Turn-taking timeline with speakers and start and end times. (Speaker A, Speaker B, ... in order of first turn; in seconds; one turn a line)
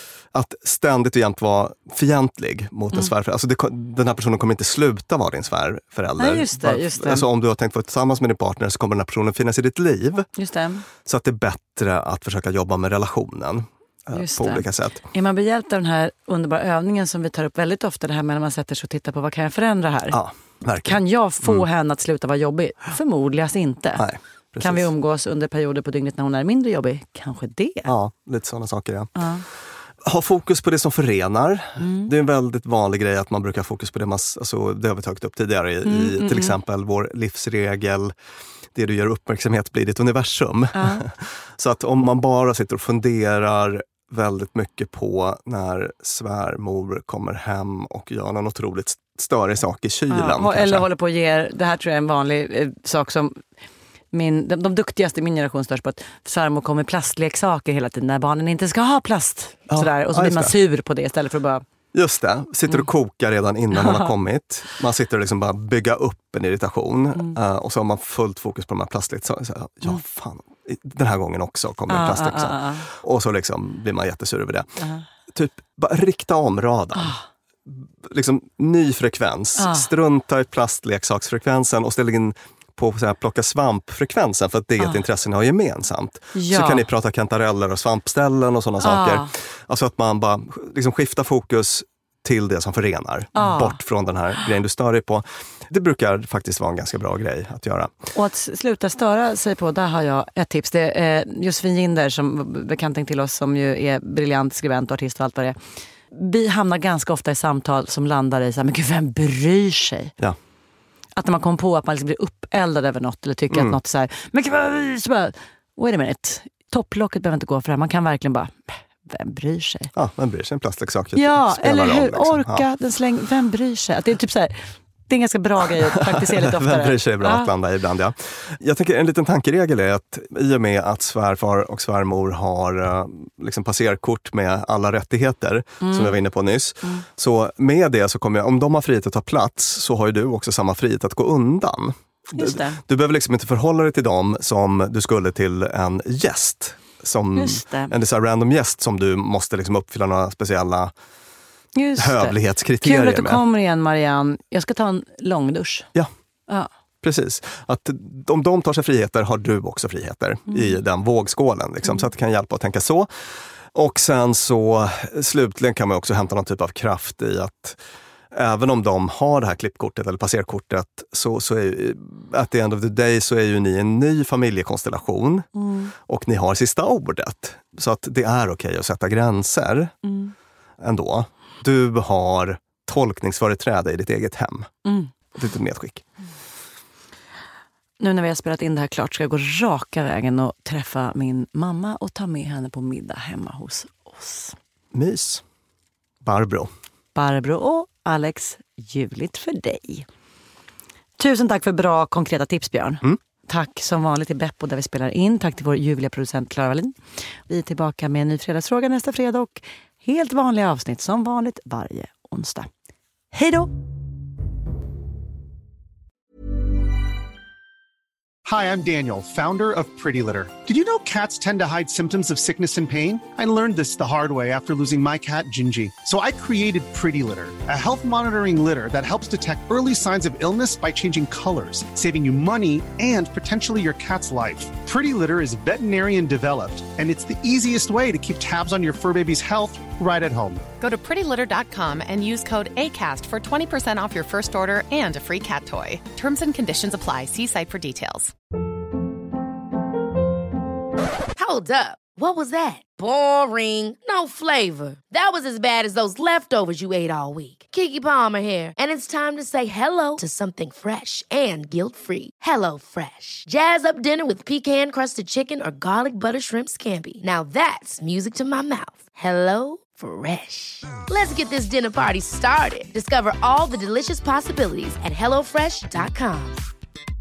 Speaker A: 0.3-10.2
Speaker B: 6.2-7.2
Speaker B: 10.4-10.9
Speaker A: 11.0-15.0
Speaker B: 14.1-20.2
Speaker A: 20.1-21.6
Speaker B: 20.8-24.0
Speaker A: 24.0-24.9
Speaker B: 24.6-27.9
Speaker A: 27.9-29.1
Speaker B: 29.1-29.4
Speaker A: 30.0-38.1
Speaker B: 31.8-32.1
Speaker B: 35.8-36.6
Speaker A: 38.8-50.9
Speaker B: 40.8-41.0
Speaker B: 50.1-53.3
Speaker B: 54.1-61.6
Speaker A: 59.7-60.5
Speaker A: 61.9-74.7
Speaker B: 63.8-64.0
Speaker B: 71.9-72.9
Speaker A: 75.3-77.1
Speaker A: 77.7-97.9
Speaker B: 79.6-79.9
Speaker B: 86.3-86.9
Speaker B: 88.8-89.3
Speaker B: 93.3-93.8
Speaker B: 98.1-105.5
Speaker B: 106.1-110.1
Speaker B: 111.2-119.9
Speaker A: 119.9-122.6
Speaker B: 121.2-124.5
Speaker B: 125.1-127.5
Speaker A: 126.0-150.9
Speaker B: 135.8-136.2
Speaker B: 142.3-142.8
Speaker B: 147.3-147.9
Speaker B: 151.8-155.9
Speaker A: 152.0-153.4
Speaker A: 157.0-163.1
Speaker A: 163.8-167.8
Speaker A: 168.3-175.4
Speaker B: 175.6-175.9
Speaker A: 176.1-179.9
Speaker B: 180.1-180.3
Speaker A: 180.8-184.7
Speaker B: 184.8-185.1
Speaker A: 185.3-186.0
Speaker B: 188.0-194.6
Speaker A: 194.9-195.4
Speaker A: 196.2-196.7
Speaker B: 197.1-200.1
Speaker B: 201.2-206.9
Speaker B: 207.5-212.7
Speaker B: 213.3-213.7
Speaker C: 218.5-240.6
Speaker D: 240.8-248.3
Speaker E: 251.4-276.6